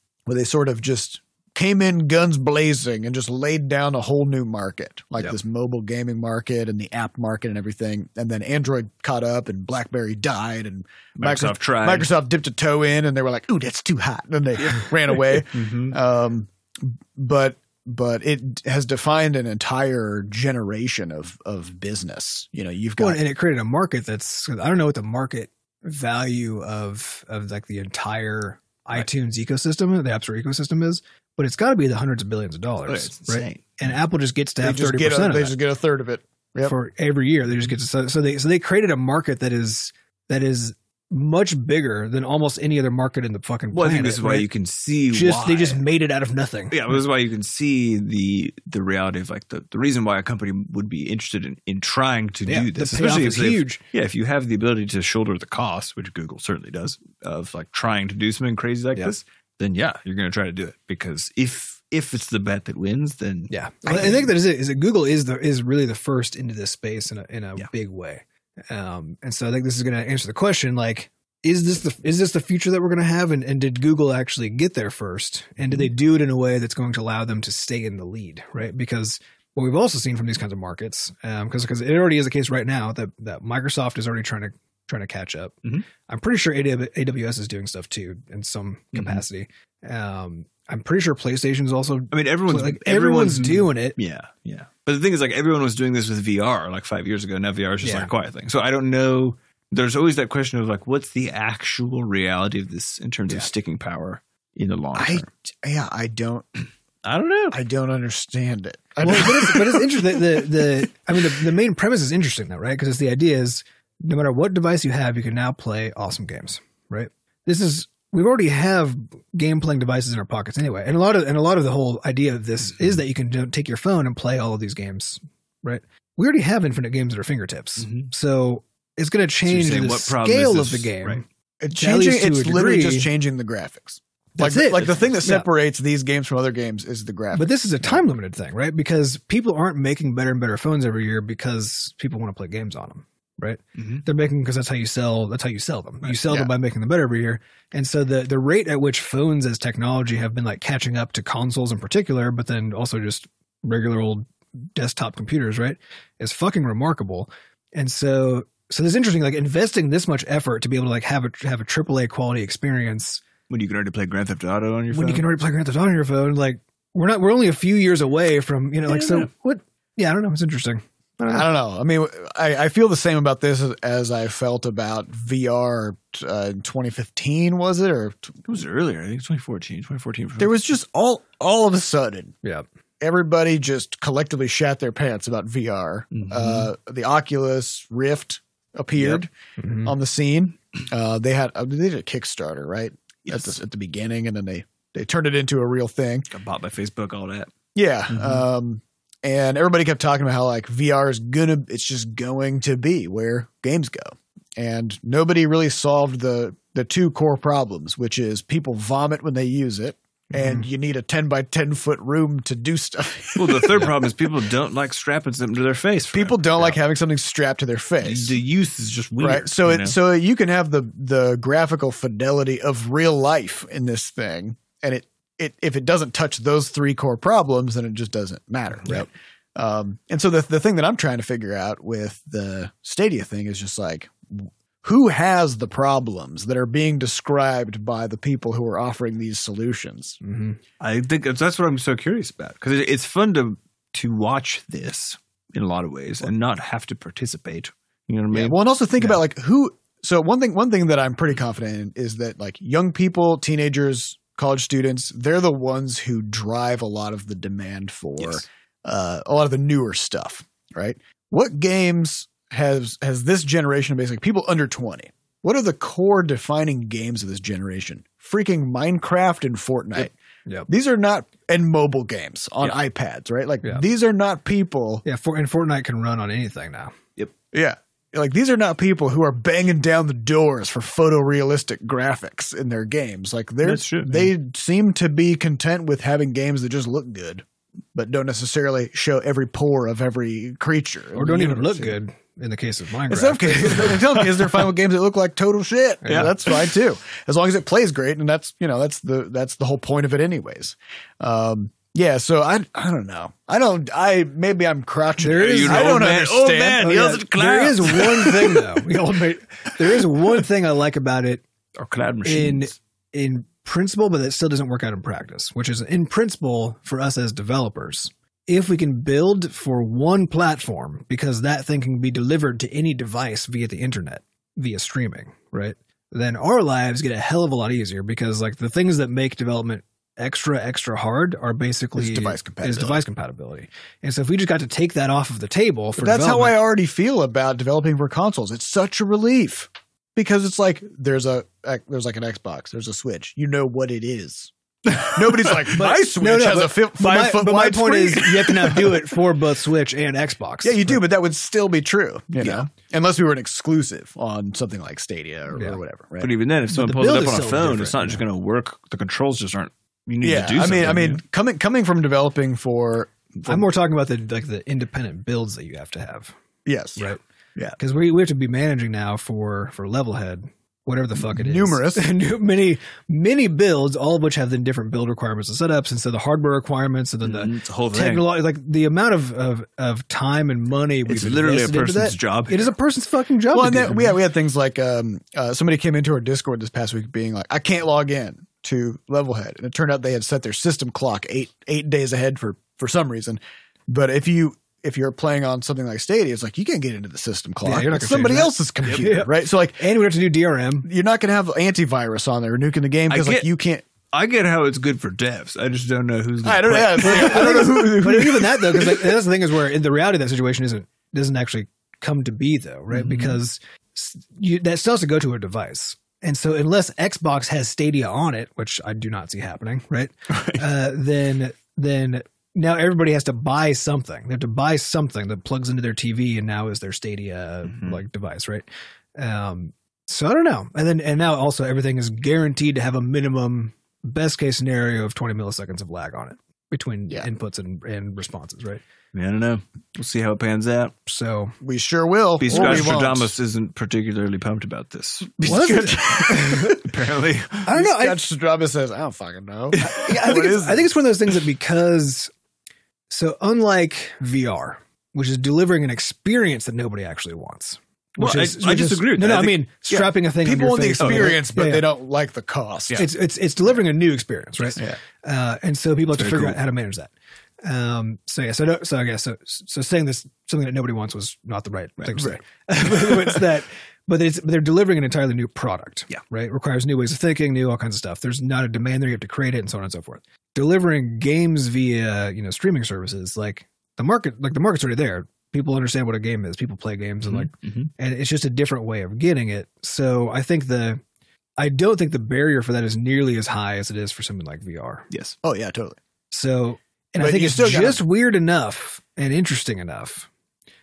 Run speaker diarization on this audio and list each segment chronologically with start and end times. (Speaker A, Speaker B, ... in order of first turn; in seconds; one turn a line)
Speaker A: 0.3-23.2
Speaker B: 11.2-12.1
Speaker B: 14.7-16.0
Speaker C: 23.0-35.5
Speaker B: 32.9-34.0
Speaker A: 34.6-36.7
Speaker C: 36.6-44.5
Speaker B: 43.7-45.8
Speaker C: 45.1-46.8
Speaker B: 46.7-64.3
Speaker C: 52.5-53.8
Speaker C: 63.5-94.0
Speaker B: 75.6-75.9
Speaker B: 88.9-89.2
Speaker B: 92.1-105.3
Speaker C: 97.8-98.1
Speaker A: 104.9-106.5
Speaker B: 107.0-107.6
Speaker A: 107.5-109.8
Speaker C: 109.0-131.2
Speaker B: 127.8-128.1
Speaker B: 129.4-131.2
Speaker A: 131.6-137.5
Speaker C: 131.7-133.1
Speaker C: 134.4-135.5
Speaker C: 137.3-163.2
Speaker B: 143.8-144.0
Speaker A: 146.3-146.5
Speaker B: 163.5-165.2
Speaker C: 164.9-171.5
Speaker B: 168.9-169.3
Speaker A: 171.3-178.4
Speaker B: 178.4-180.6
Speaker A: 180.4-182.3
Speaker A: 183.0-189.3
Speaker B: 186.1-186.7
Speaker C: 189.6-189.9
Speaker A: 189.8-196.3
Speaker B: 193.3-193.5
Speaker B: 196.3-197.5
Speaker A: 197.7-214.1
Speaker B: 198.1-198.4
Speaker B: 213.3-216.8
Speaker A: 216.1-218.3
Speaker B: 218.0-219.9
Speaker A: 219.2-240.2
Speaker C: 240.2-240.6
Speaker B: 240.8-248.6
Speaker A: 248.3-270.1
Speaker A: 270.7-275.0
Speaker C: 275.0-276.9
Speaker A: 277.5-291.9
Speaker B: 283.6-284.3
Speaker C: 291.1-294.3
Speaker A: 293.1-306.9
Speaker C: 296.0-296.3
Speaker B: 296.1-296.6
Speaker C: 305.2-306.0
Speaker B: 305.3-308.7
Speaker C: 306.8-311.4
Speaker B: 311.7-312.7
Speaker C: 312.2-336.6
Speaker A: 331.9-333.0
Speaker A: 335.9-349.0
Speaker B: 344.9-345.8
Speaker C: 345.7-351.0
Speaker A: 350.6-356.3
Speaker C: 355.5-355.8
Speaker B: 356.2-361.2
Speaker C: 356.7-358.2
Speaker A: 360.2-363.6
Speaker C: 363.4-366.3
Speaker A: 366.6-367.8
Speaker C: 367.8-384.1
Speaker A: 371.2-372.1
Speaker B: 377.2-378.2
Speaker B: 381.1-382.7
Speaker A: 383.5-399.9
Speaker C: 397.6-400.9
Speaker A: 400.8-403.9
Speaker B: 403.1-403.5
Speaker B: 404.1-407.5
Speaker A: 406.4-409.2
Speaker C: 407.0-428.6
Speaker B: 412.9-413.4
Speaker B: 420.3-420.6
Speaker B: 427.7-428.0
Speaker C: 429.2-438.8
Speaker B: 439.1-440.9
Speaker C: 441.1-441.5
Speaker A: 441.6-443.3
Speaker B: 442.4-447.7
Speaker C: 442.5-443.0
Speaker A: 445.4-446.8
Speaker C: 445.4-446.8
Speaker C: 447.6-448.2
Speaker A: 447.7-450.9
Speaker B: 449.7-450.1
Speaker C: 449.8-452.3
Speaker C: 453.1-461.9
Speaker B: 458.2-460.1
Speaker A: 460.2-463.0
Speaker B: 461.0-461.4
Speaker C: 462.9-467.1
Speaker B: 466.1-466.6
Speaker C: 467.6-491.0
Speaker B: 473.0-473.4
Speaker B: 487.2-487.9
Speaker C: 491.6-495.1
Speaker B: 495.1-495.4
Speaker A: 495.4-496.0
Speaker C: 496.3-500.3
Speaker A: 497.2-498.0